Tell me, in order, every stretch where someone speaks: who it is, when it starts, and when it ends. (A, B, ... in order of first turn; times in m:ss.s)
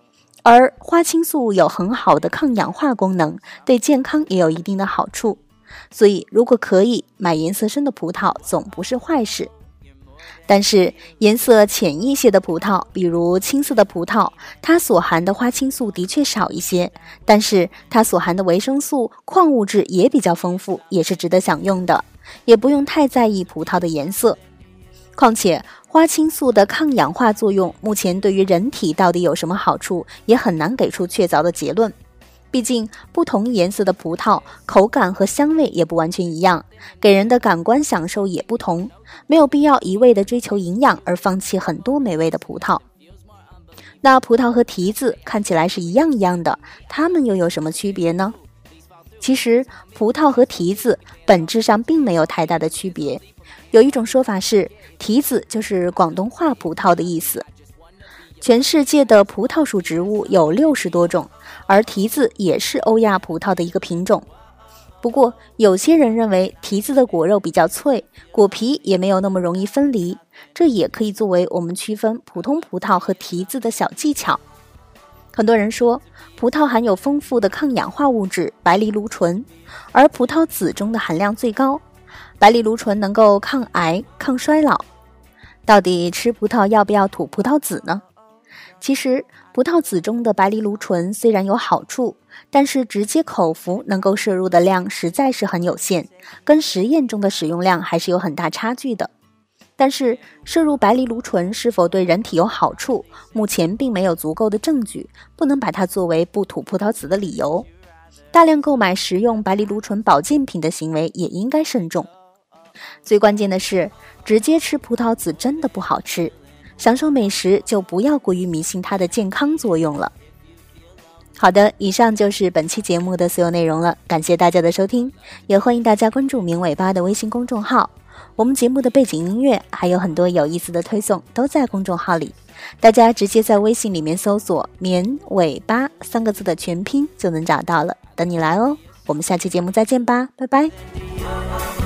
0:00.4-0:05.4 A
0:05.9-0:09.5 A
0:10.5-0:24.4 A
0:25.2-0:32.0 A
0:32.5-0:42.8 A
0:44.0-0:48.4 A
0:49.2-0:57.5 A
0:58.4-1:04.3 A
1:05.0-1:14.4 A
1:15.3-1:21.8 A
1:22.4-1:24.9 A
1:25.7-1:28.0 A
1:28.8-1:39.1 A
1:39.8-1:47.7 A
1:48.3-1:52.1 A
1:53.0-2:00.1 A
2:01.4-2:20.7 A